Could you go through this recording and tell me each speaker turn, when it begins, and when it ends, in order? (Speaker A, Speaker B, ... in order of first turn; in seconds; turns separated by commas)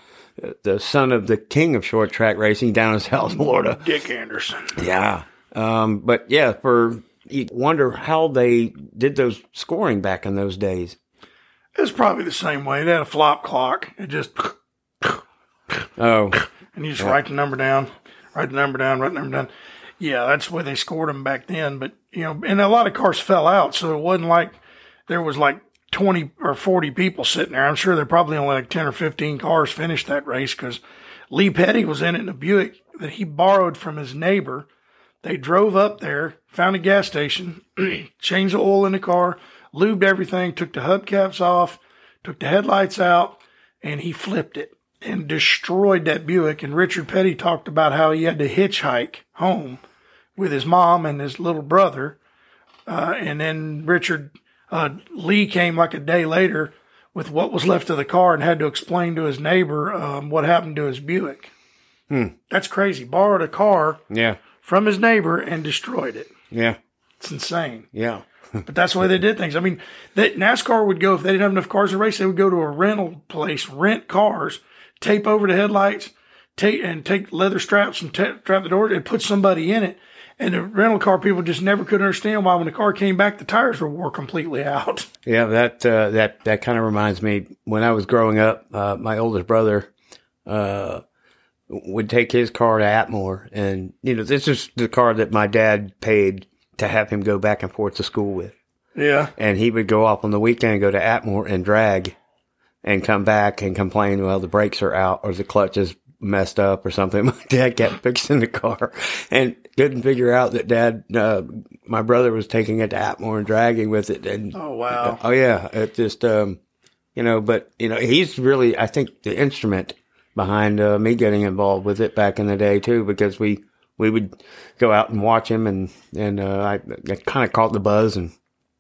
Speaker A: 0.4-3.8, Speaker B: 3.7-4.8, Speaker A: 4.8-11.0, Speaker B: 11.8-15.2, Speaker A: 16.0-16.4, Speaker B: 16.7-19.5, Speaker B: 20.0-24.6, Speaker B: 25.1-30.8, Speaker B: 31.3-34.7, Speaker B: 35.2-49.8, Speaker B: 50.4-52.2, Speaker B: 52.9-61.5, Speaker A: 62.1-62.4, Speaker B: 62.5-64.0, Speaker A: 64.1-64.4, Speaker B: 64.6-66.3, Speaker A: 66.5-66.8, Speaker B: 67.2-67.9, Speaker A: 67.9-68.2, Speaker B: 68.7-85.1, Speaker A: 85.3-89.9, Speaker A: 90.5-91.0, Speaker A: 91.7-98.5, Speaker B: 99.0-99.3, Speaker A: 99.4-102.2, Speaker A: 102.8-116.6, Speaker B: 114.5-115.2, Speaker A: 117.2-128.3